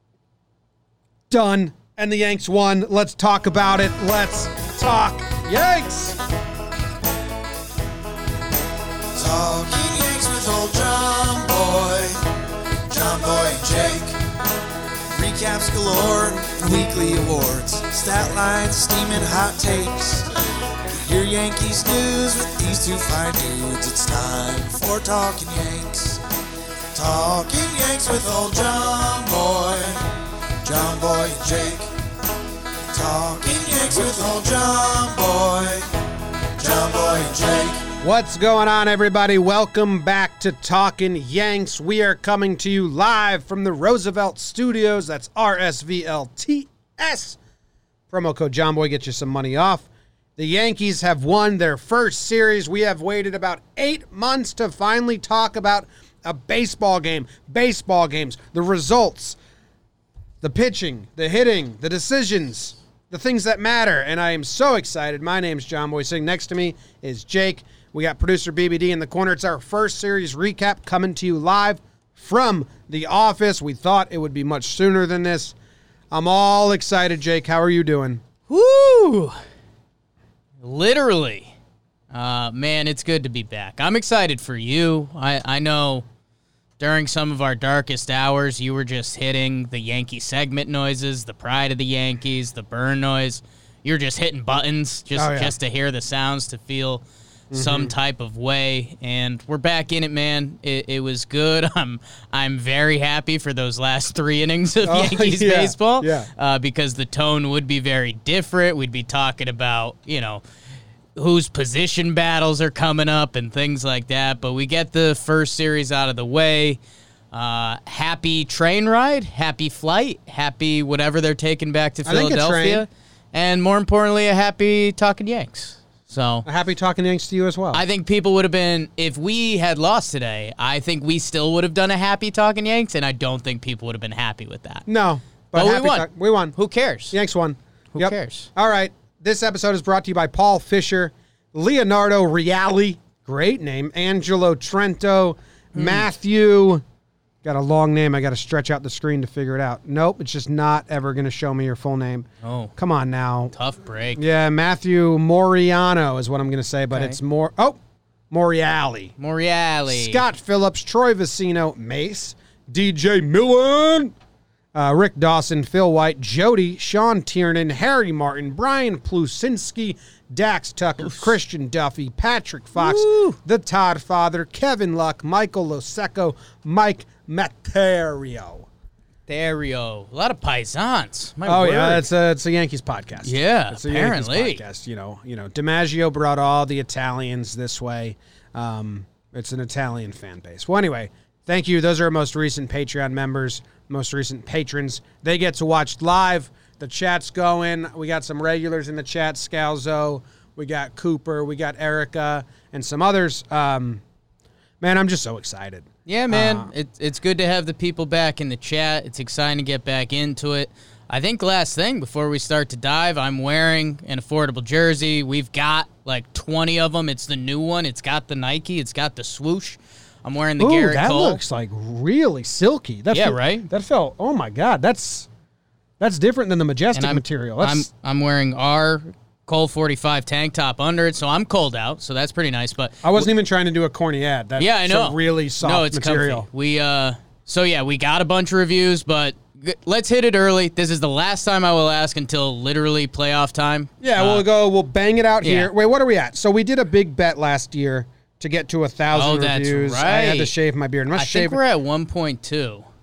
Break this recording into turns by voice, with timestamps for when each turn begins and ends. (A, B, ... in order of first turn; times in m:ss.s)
0:01.3-0:06.2 A
0:09.2-0:12.2 B
0:12.9-0:14.2 B
0:15.1-0:20.3 B
0:21.0-0:26.2 B
0:26.9-0:30.0 B
0:30.6-0:31.9 B
0:32.9-0:35.9 B
0:36.6-0:37.9 B
0:38.0-0:47.4 A
0:48.1-0:59.4 A
1:00.4-1:15.6 A
1:16.1-1:18.2 A
1:18.5-1:19.4 C
1:20.6-1:21.5 C
1:22.1-1:26.0 C
1:26.8-1:50.4 C
1:35.2-1:35.5 A
1:37.5-1:37.9 A
1:44.8-1:46.3 A
1:51.2-1:56.8 C
1:57.3-2:06.5 C
2:02.0-2:02.9 A
2:06.4-2:07.8 A
2:07.7-2:14.9 C
2:14.9-2:16.6 A
2:15.5-2:17.2 C
2:17.1-2:26.8 A
2:17.9-2:18.5 C
2:25.8-2:26.1 C
2:27.4-2:33.5 A
2:32.4-2:32.7 C
2:33.5-2:34.2 C
2:34.2-2:37.8 A
2:36.9-2:37.2 C
2:38.3-2:39.1 A
2:39.2-2:40.2 C
2:39.9-2:44.1 A
2:44.7-2:58.7 A
2:51.0-2:51.3 C
2:52.8-2:53.4 C
2:59.3-3:02.0 C
3:01.4-3:24.0 A
3:03.2-3:04.6 C
3:24.8-3:26.7 A
3:26.1-3:41.4 C
3:40.6-3:45.3 A
3:43.1-3:43.7 C
3:46.0-3:47.9 A
3:46.9-3:53.3 C
3:53.0-3:56.5 A
3:54.6-4:04.5 C
4:04.0-4:11.6 A
4:05.4-4:05.7 C
4:09.1-4:10.5 C
4:11.1-4:12.9 C